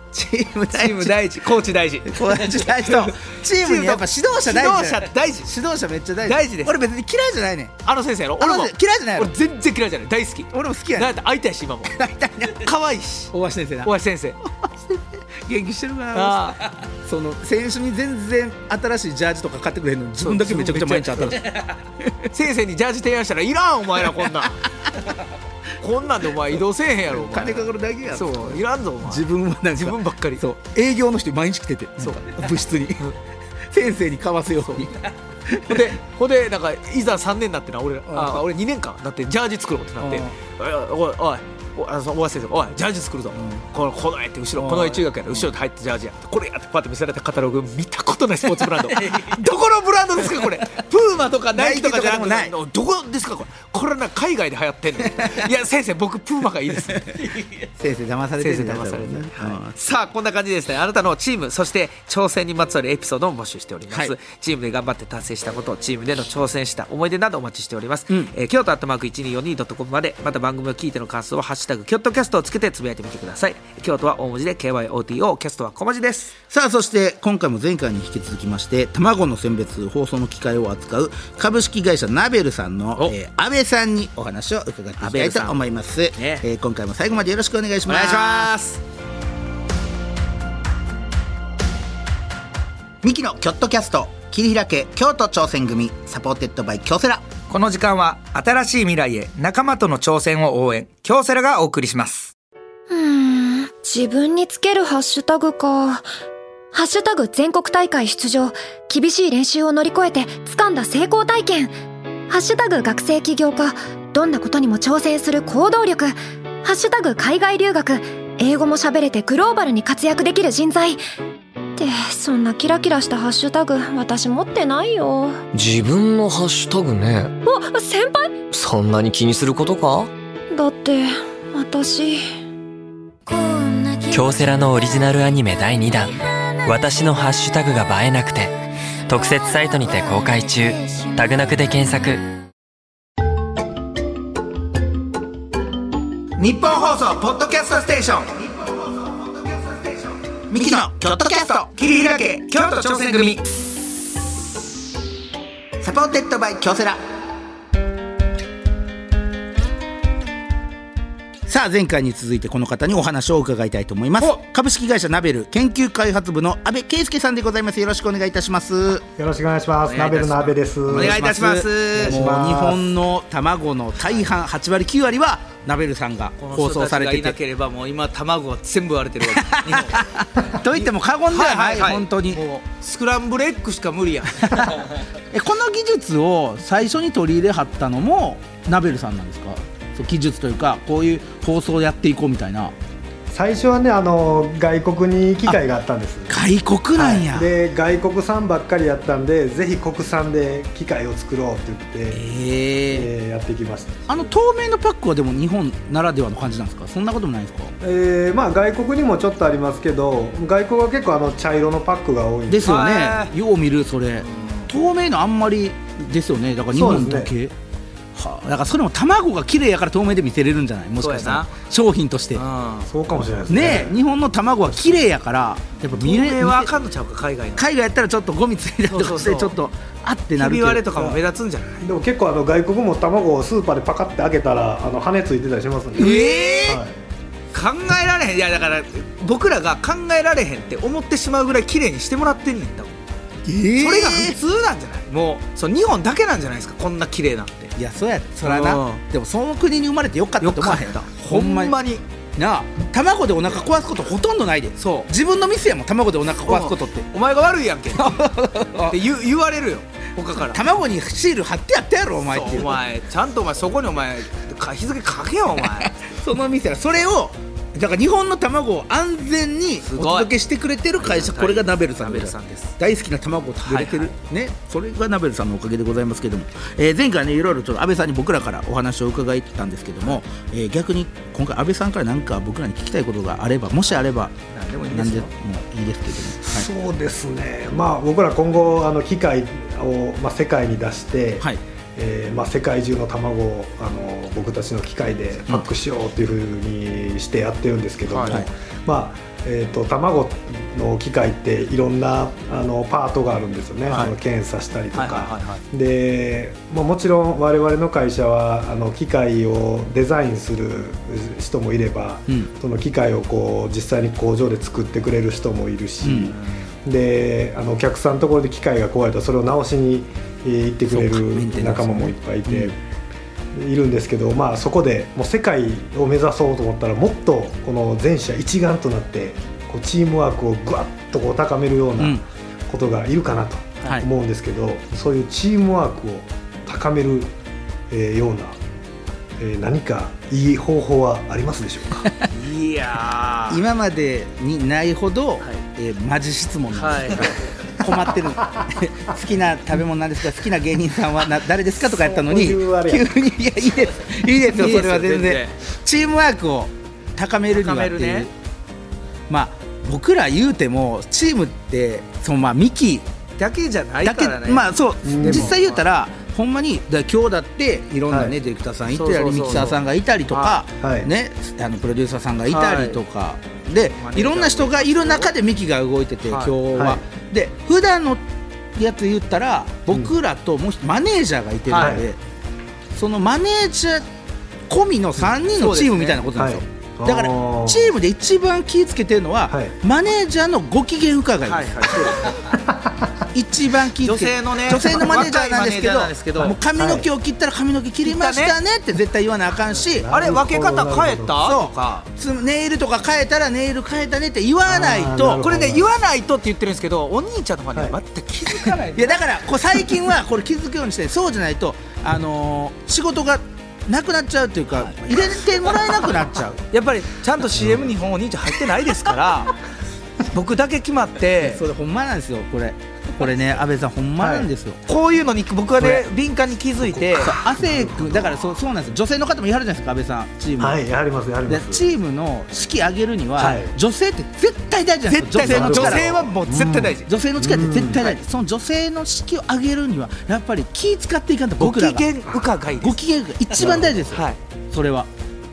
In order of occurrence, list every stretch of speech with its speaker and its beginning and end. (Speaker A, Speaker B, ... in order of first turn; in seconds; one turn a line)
Speaker A: 0.1-1.4
Speaker B: 0.7-5.5
Speaker A: 2.0-7.8
Speaker B: 6.2-6.8
Speaker B: 7.8-13.3
Speaker A: 8.4-9.3
Speaker A: 10.5-11.2
Speaker A: 11.8-12.7
Speaker A: 13.3-13.9
Speaker B: 13.8-14.4
Speaker A: 14.4-22.3
Speaker B: 16.1-16.7
Speaker B: 20.2-21.7
Speaker B: 22.3-24.6
Speaker B: 25.8-30.4
Speaker A: 27.1-33.1
Speaker B: 32.0-33.2
Speaker A: 33.7-35.9
Speaker B: 35.7-57.5
Speaker A: 38.1-38.4
Speaker A: 40.0-40.3
Speaker A: 43.3-43.7
Speaker A: 44.6-45.5
Speaker A: 51.5-52.5
Speaker A: 55.2-55.4
Speaker A: 57.6-59.8
Speaker B: 58.4-76.4
Speaker A: 63.9-64.2
Speaker A: 76.5-88.5
Speaker B: 85.0-85.6
Speaker B: 86.1-86.4
Speaker B: 87.9-88.8
Speaker A: 93.0-97.3
Speaker B: 97.5-102.3
Speaker C: 102.9-106.0
Speaker C: 106.7-111.7
Speaker C: 112.3-121.0
Speaker C: 121.8-125.4
Speaker D: 125.5-127.3
Speaker C: 127.5-128.4
Speaker D: 128.5-130.1
Speaker C: 130.5-132.2
Speaker D: 134.1-138.6
Speaker D: 139.1-142.2
Speaker A: 146.4-147.3
Speaker B: 146.7-148.3
Speaker A: 150.5-151.8
Speaker B: 151.8-153.4
Speaker A: 155.8-157.0
Speaker A: 161.5-169.1
Speaker E: 169.2-171.2
Speaker B: 169.9-172.3
Speaker A: 170.9-177.4
Speaker E: 172.0-172.9
Speaker B: 176.4-180.1
Speaker A: 179.2-182.4
Speaker B: 180.7-184.9
Speaker A: 185.3-192.8
Speaker E: 193.3-196.4
Speaker A: 196.3-197.5
Speaker E: 196.9-202.2
Speaker A: 202.1-203.1
Speaker E: 202.9-204.0
Speaker A: 204.1-207.8
Speaker E: 207.8-212.8
Speaker A: 212.5-217.6
Speaker B: 212.6-213.3
Speaker B: 214.3-214.7
Speaker E: 216.7-217.3
Speaker A: 218.1-222.4
Speaker B: 221.0-221.5
Speaker B: 222.3-222.9
Speaker E: 222.9-224.0
Speaker A: 223.5-226.7
Speaker B: 225.9-227.7
Speaker A: 227.6-231.1
Speaker B: 228.9-229.6
Speaker B: 230.4-231.8
Speaker E: 231.8-236.9
Speaker A: 236.0-236.8
Speaker B: 236.0-236.8
Speaker B: 237.5-242.9
Speaker A: 243.5-244.4
Speaker B: 243.8-247.7
Speaker A: 247.8-251.8
Speaker B: 248.4-249.0
Speaker B: 250.4-252.0
Speaker A: 252.4-257.1
Speaker B: 254.8-255.1
Speaker B: 256.5-258.2
Speaker A: 257.9-259.0
Speaker B: 258.8-260.6
Speaker A: 260.5-262.8
Speaker B: 262.3-266.0
Speaker A: 265.6-284.4
Speaker B: 269.8-270.3
Speaker B: 271.0-272.8
Speaker B: 273.6-274.1
Speaker B: 284.5-285.3
Speaker A: 284.9-286.7
Speaker E: 286.4-322.8
Speaker B: 298.1-298.4
Speaker A: 303.9-304.1
Speaker B: 304.9-305.6
Speaker A: 316.0-316.4
Speaker B: 316.4-316.7
Speaker A: 320.9-322.7
Speaker E: 323.5-337.3
Speaker A: 332.0-332.2
Speaker E: 337.9-338.6
Speaker E: 339.4-342.1
Speaker B: 342.3-343.6
Speaker A: 343.5-358.3
Speaker B: 346.7-347.4
Speaker E: 351.8-353.1
Speaker B: 354.5-355.5
Speaker B: 357.5-358.3
Speaker A: 359.3-363.1
Speaker B: 363.4-365.8
Speaker A: 364.0-382.2
Speaker E: 365.1-365.6
Speaker B: 368.9-369.8
Speaker B: 370.3-370.6
Speaker E: 370.8-371.1
Speaker B: 372.5-373.0
Speaker B: 374.0-375.3
Speaker B: 376.2-376.6
Speaker E: 376.8-377.0
Speaker B: 381.7-382.0
Speaker E: 381.7-382.1
Speaker A: 382.9-384.1
Speaker A: 384.7-392.3
Speaker B: 385.3-386.3
Speaker E: 386.4-387.9
Speaker E: 389.5-389.7
Speaker B: 391.4-392.5
Speaker A: 393.3-400.1
Speaker B: 394.0-396.6
Speaker E: 396.8-397.1
Speaker B: 398.0-398.6
Speaker E: 399.9-401.3
Speaker B: 400.1-402.1
Speaker A: 401.4-405.4
Speaker E: 404.7-405.9
Speaker B: 405.4-409.3
Speaker A: 408.9-416.6
Speaker B: 415.4-419.6
Speaker B: 420.3-421.6
Speaker A: 421.4-424.8
Speaker E: 424.2-424.5
Speaker B: 424.9-427.4
Speaker A: 427.1-430.8
Speaker E: 427.5-428.4
Speaker E: 430.6-431.9
Speaker A: 431.5-436.4
Speaker E: 433.4-433.7
Speaker B: 435.1-437.1
Speaker E: 435.4-438.0
Speaker A: 437.0-442.1
Speaker B: 441.6-443.0
Speaker A: 442.8-445.1
Speaker E: 443.6-444.1
Speaker B: 444.1-444.4